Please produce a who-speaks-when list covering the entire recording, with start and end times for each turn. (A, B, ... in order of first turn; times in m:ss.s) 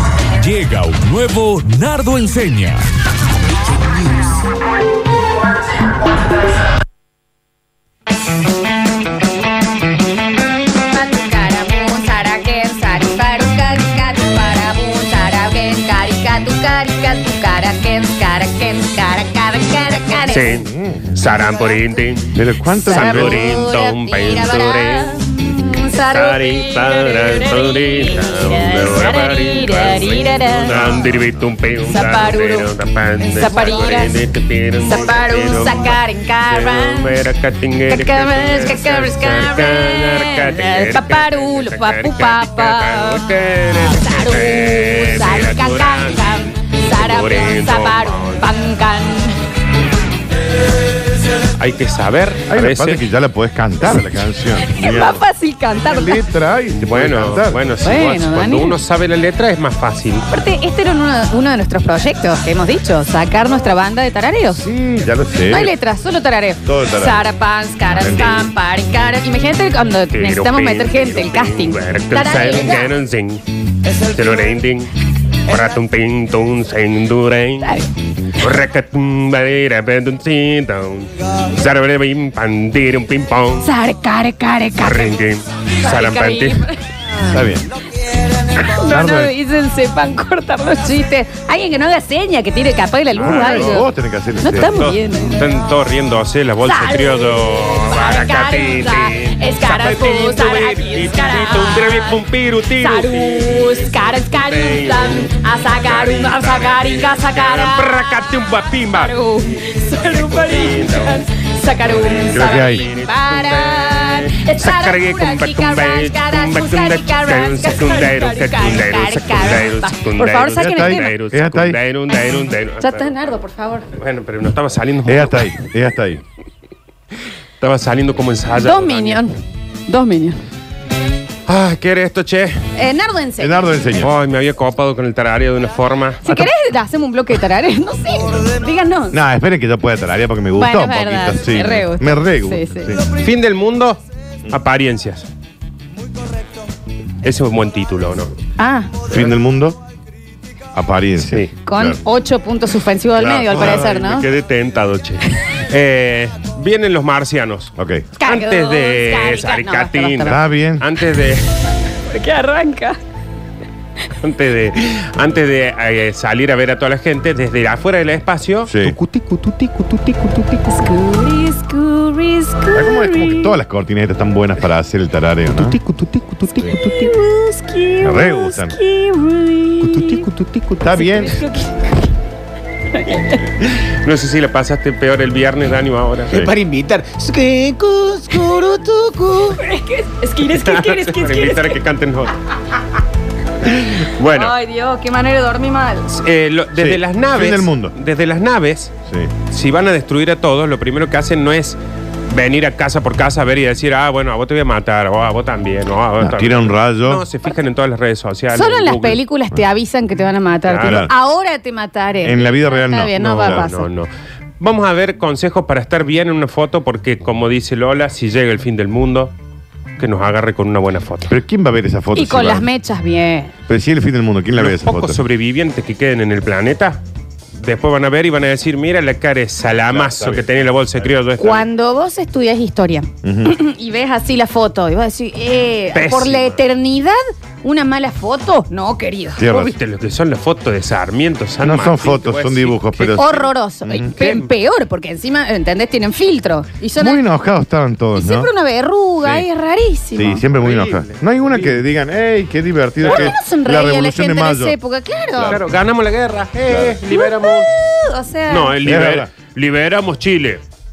0:00.4-0:02.8 A
0:10.8-0:20.6 B
0:20.1-0:25.2 C
0:20.5-0:21.1 D
0:22.3-0:23.4 D
0:22.8-0:31.1 B
0:26.0-0:48.5 C
0:31.8-0:34.1 B
0:34.8-0:37.2 B
0:37.9-0:43.3 B
0:43.8-0:49.4 B
0:51.6-0:53.1 C
0:52.5-0:55.2 D
0:54.6-0:56.2 B
0:55.8-0:57.6 D
0:56.8-1:00.3 C
0:57.8-0:58.8 B
1:00.3-1:04.6 B
1:04.5-1:05.7 D
1:05.5-1:12.9 B
1:06.6-1:07.3 D
1:07.8-1:08.5 D
1:10.1-1:23.7 C
1:23.6-1:25.2 B
1:24.8-1:26.7 C
1:25.8-1:26.8 B
1:27.3-1:27.6 D
1:28.5-1:33.9 B
1:28.8-1:29.3 D
1:33.1-1:33.9 C
1:33.2-1:34.8 D
1:34.4-1:35.4 B
1:34.5-1:49.1 C
1:36.6-1:42.2 B
1:42.8-1:48.3 B
1:48.9-2:01.2 B
1:50.1-1:51.2 C
1:51.8-2:03.1 C
1:52.3-1:52.8 D
2:00.6-2:01.8 D
2:02.8-2:03.8 B
2:04.0-2:05.5 C
2:05.0-2:06.2 D
2:07.6-2:09.2 C
2:08.5-2:10.4 B
2:11.5-2:12.6 C
2:12.8-2:13.7 B
2:13.4-2:14.1 D
2:14.0-2:16.2 C
2:16.2-2:19.2 B
2:16.3-2:16.5 D
2:19.1-2:23.0 D
2:20.5-2:23.0 B
2:23.2-2:25.3 C
2:27.2-2:28.3 C
2:28.6-2:28.9 B
2:29.1-2:29.8 D
2:30.7-2:32.0 D
2:31.2-2:31.5 C
2:31.6-2:34.3 B
2:33.2-2:34.0 D
2:33.2-2:41.4 C
2:37.8-2:38.1 D
2:38.2-2:40.4 B
2:40.2-2:40.8 D
2:42.0-2:43.0 B
2:44.2-2:50.7 C
2:48.6-2:49.0 D
2:50.7-2:53.6 B
2:52.7-2:55.8 D
2:55.5-2:57.1 C
2:56.6-3:00.2 B
2:58.0-2:58.8 D
2:59.8-3:01.4 C
3:00.8-3:01.4 D
3:01.0-3:02.0 B
3:02.9-3:03.4 B
3:03.6-3:06.4 C
3:06.3-3:06.5 D
3:06.3-3:09.6 E
3:09.4-3:11.8 B
3:10.5-3:12.3 C
3:13.6-3:14.6 C
3:14.3-3:16.1 B
3:16.1-3:18.9 C
3:16.8-3:17.9 D
3:19.1-3:19.3 D
3:19.5-3:29.2 C
3:26.2-3:27.2 D
3:28.5-3:33.9 B
3:30.6-3:31.1 C
3:30.8-3:31.1 D
3:32.2-3:33.7 D
3:33.3-3:39.3 C
3:40.0-3:41.3 C
3:41.3-3:42.7 D
3:42.1-3:43.5 B
3:43.7-3:45.2 D
3:44.6-3:47.0 C
3:47.6-3:51.7 C
3:49.9-3:50.5 D
3:51.4-3:59.4 B
3:53.2-3:53.5 D
3:55.9-3:56.6 C
3:59.4-3:59.7 D
3:59.4-4:03.5 C
4:01.6-4:04.1 D
4:03.1-4:07.2 B
4:04.1-4:04.5 C
4:07.0-4:08.5 D
4:08.1-4:10.4 B
4:10.2-4:14.8 D
4:10.5-4:11.8 C
4:13.0-4:15.6 B
4:13.0-4:13.3 C
4:15.3-4:15.7 D
4:15.5-4:17.7 C
4:16.6-4:17.0 D
4:17.1-4:18.8 B
4:18.5-4:20.6 C
4:18.8-4:19.3 D